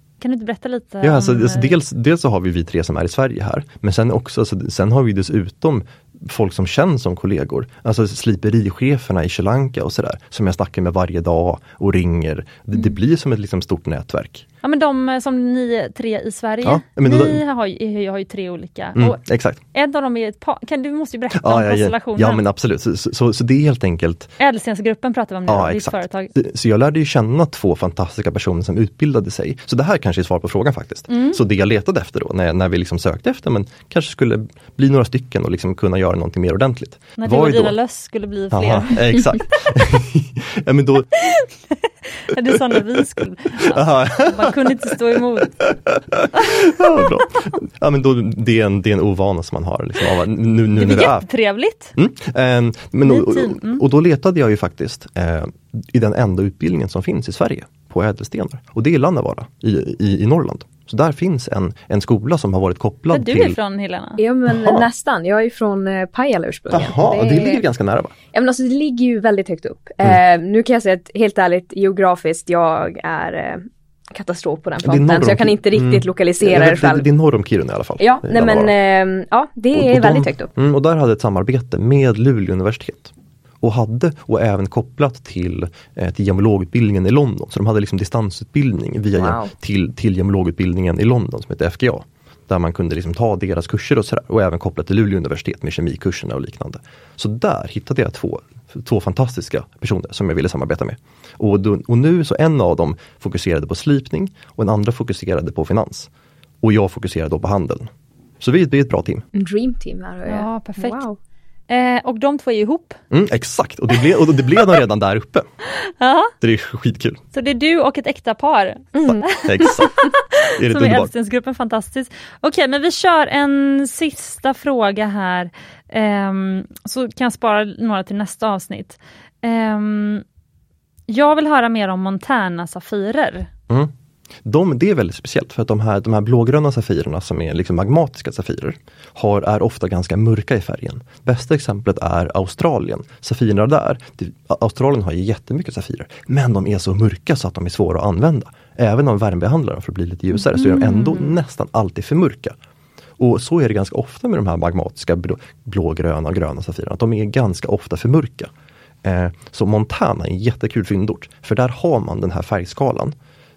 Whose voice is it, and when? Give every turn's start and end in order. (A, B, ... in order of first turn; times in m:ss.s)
0:00.2-0:01.7 A
0:01.0-0:14.5 B
0:14.6-0:22.4 A
0:16.6-0:17.4 B
0:19.0-0:19.6 B
0:21.3-0:24.3 B
0:24.4-0:26.3 A
0:25.5-0:37.8 B
0:31.1-0:31.4 A
0:37.2-0:39.0 A
0:38.5-0:41.1 B
0:41.1-0:45.6 A
0:43.6-0:44.7 B
0:45.6-0:51.3 B
0:46.3-0:46.8 A
0:50.7-0:52.0 A
0:52.0-1:03.6 B
0:53.0-0:53.8 A
1:03.1-1:04.2 A
1:04.2-1:07.6 C
1:04.5-1:04.9 B
1:06.7-1:08.1 B
1:08.3-1:17.1 C
1:14.8-1:18.7 B
1:18.0-1:20.5 C
1:19.7-1:46.1 B
1:29.2-1:29.5 C
1:46.6-1:47.9 B
1:48.4-1:49.2 B
1:49.3-1:51.2 C
1:50.3-1:51.0 A
1:51.7-1:53.0 A
1:53.1-1:55.4 B
1:55.8-1:56.3 A
1:56.4-1:57.2 B
1:57.3-2:10.2 A
1:58.9-1:59.2 C
1:59.0-1:59.9 B
2:00.5-2:01.1 B
2:11.1-2:13.5 A
2:14.4-2:32.6 B
2:30.6-2:31.3 C
2:30.6-2:31.0 A
2:33.2-2:38.5 B
2:39.0-2:43.1 B